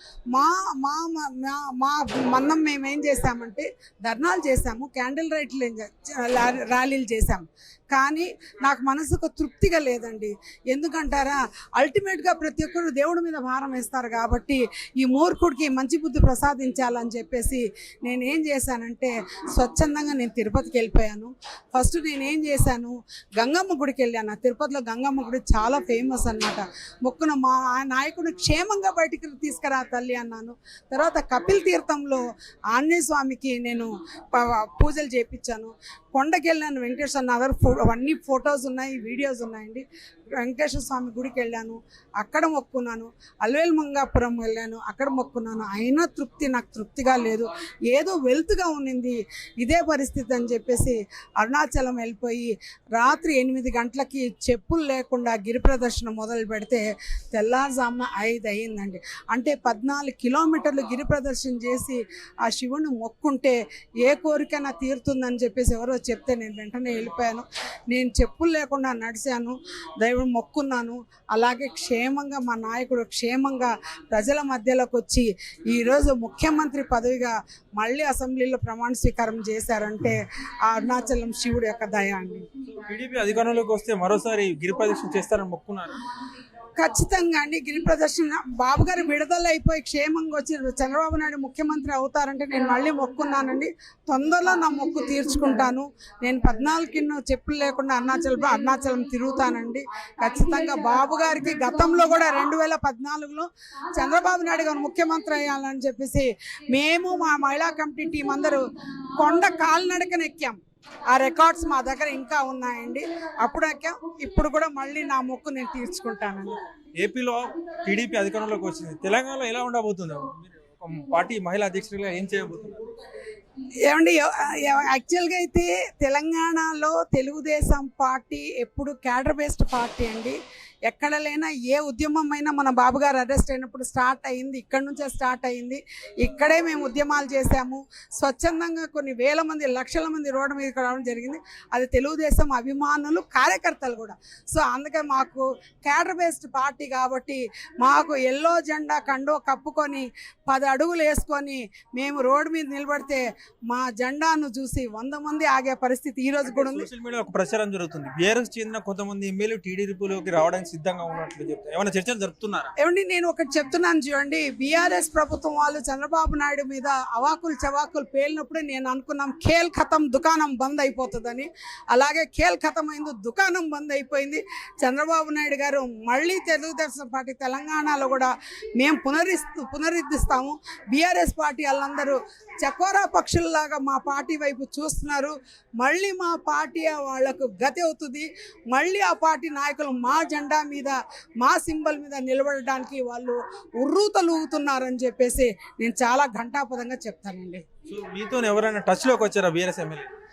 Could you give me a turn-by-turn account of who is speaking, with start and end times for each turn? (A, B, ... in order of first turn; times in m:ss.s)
0:00.3-0:39.8 A
0:40.4-1:22.5 A
1:22.8-1:26.0 B
1:26.8-1:50.6 A
1:51.1-1:56.6 A
1:57.0-2:02.9 B
2:03.9-2:36.9 A
2:36.5-2:42.7 B
2:42.8-3:17.6 A
3:17.9-3:20.1 B